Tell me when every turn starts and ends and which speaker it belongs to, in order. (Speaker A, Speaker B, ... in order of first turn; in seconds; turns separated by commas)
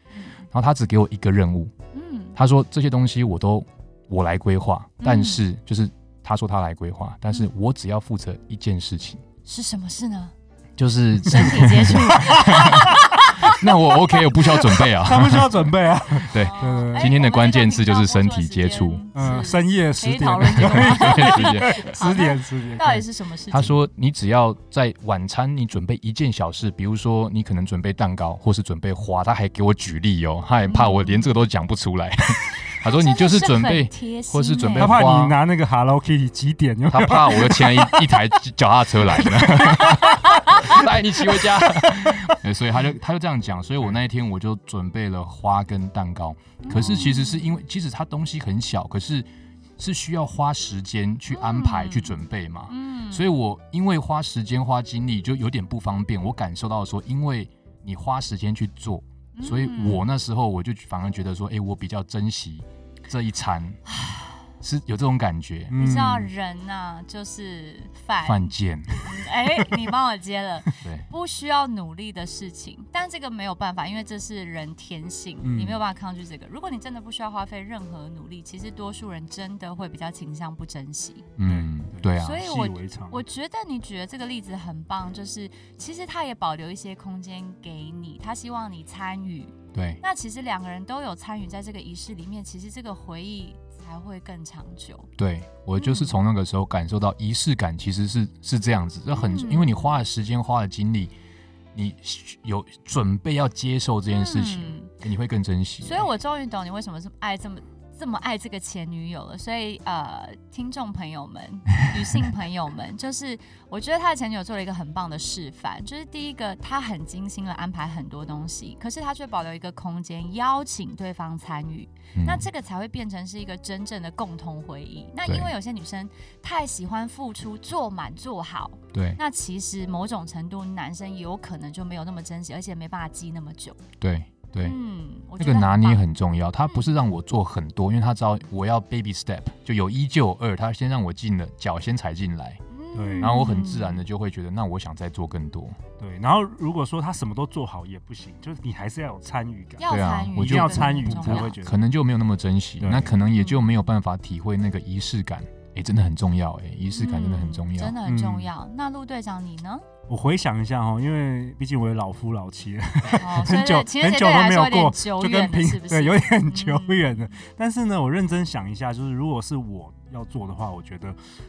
Speaker A: 0.1-0.4, Speaker B: 0.5-1.7, Speaker A: 1.9-2.4, Speaker B: 2.4-9.2, Speaker A: 5.0-5.4, Speaker A: 9.5-10.3, Speaker B: 10.8-15.5, Speaker A: 11.2-14.8, Speaker C: 12.1-12.9, Speaker C: 14.9-17.1, Speaker B: 16.3-19.1, Speaker A: 16.3-23.8, Speaker C: 19.1-23.1, Speaker B: 20.6-22.0, Speaker B: 23.5-35.4, Speaker A: 30.6-31.3, Speaker A: 32.8-35.0, Speaker C: 34.8-38.2, Speaker B: 36.9-49.3, Speaker C: 39.0-42.4, Speaker A: 46.6-47.5, Speaker B: 49.8-63.8, Speaker A: 51.3-53.3, Speaker A: 59.4-60.1, Speaker A: 64.0-64.4, Speaker B: 64.6-65.8, Speaker C: 65.7-66.3, Speaker A: 65.8-68.5, Speaker B: 68.2-69.0, Speaker A: 69.0-81.3, Speaker B: 70.8-71.1, Speaker C: 75.4-75.8, Speaker B: 81.4-82.4, Speaker C: 81.5-83.2, Speaker A: 82.2-95.1, Speaker B: 89.7-90.0, Speaker B: 95.2-101.1, Speaker A: 95.8-96.2, Speaker A: 99.1-99.9, Speaker B: 101.7-106.1, Speaker A: 104.1-104.9, Speaker A: 105.8-133.8, Speaker B: 122.2-122.5, Speaker B: 125.3-125.5, Speaker B: 128.9-129.2, Speaker B: 134.0-134.8, Speaker A: 134.6-136.0, Speaker B: 135.4-142.6, Speaker A: 136.7-136.9, Speaker A: 142.7-144.1, Speaker C: 142.9-143.4, Speaker B: 143.2-145.8, Speaker C: 146.0-151.8, Speaker A: 149.8-151.6, Speaker B: 149.9-158.0, Speaker C: 152.8-153.1, Speaker A: 153.2-153.8, Speaker A: 156.9-159.8, Speaker C: 158.1-158.5, Speaker C: 160.1-171.2, Speaker A: 163.2-167.3